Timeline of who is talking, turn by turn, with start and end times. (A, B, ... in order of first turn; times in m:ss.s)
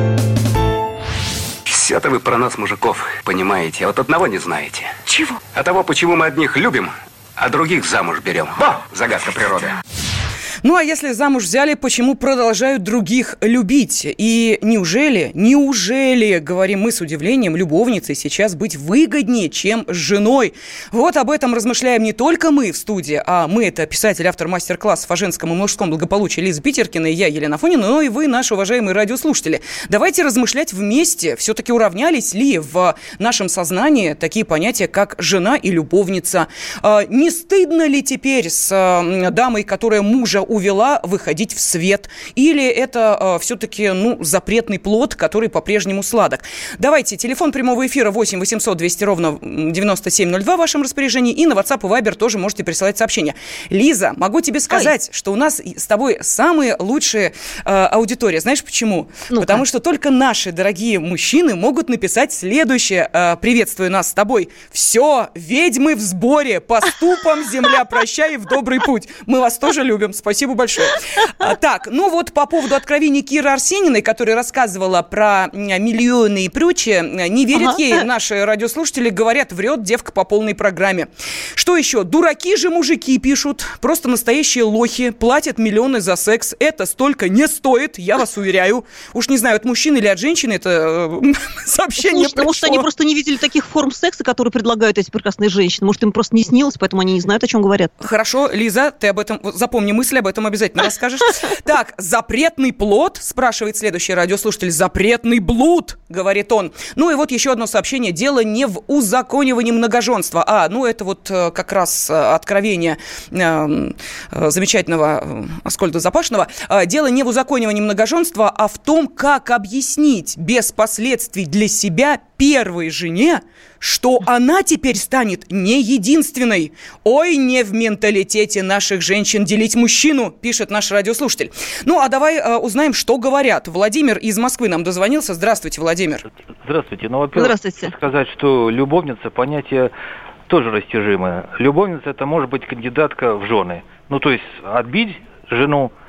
0:01.7-0:09.8 A
0:10.6-1:32.9 B
0:59.3-0:59.6 C
1:32.0-1:37.9 C
1:38.0-2:16.2 B
2:16.6-2:19.9 D
2:17.3-2:17.9 C
2:20.5-2:25.9 D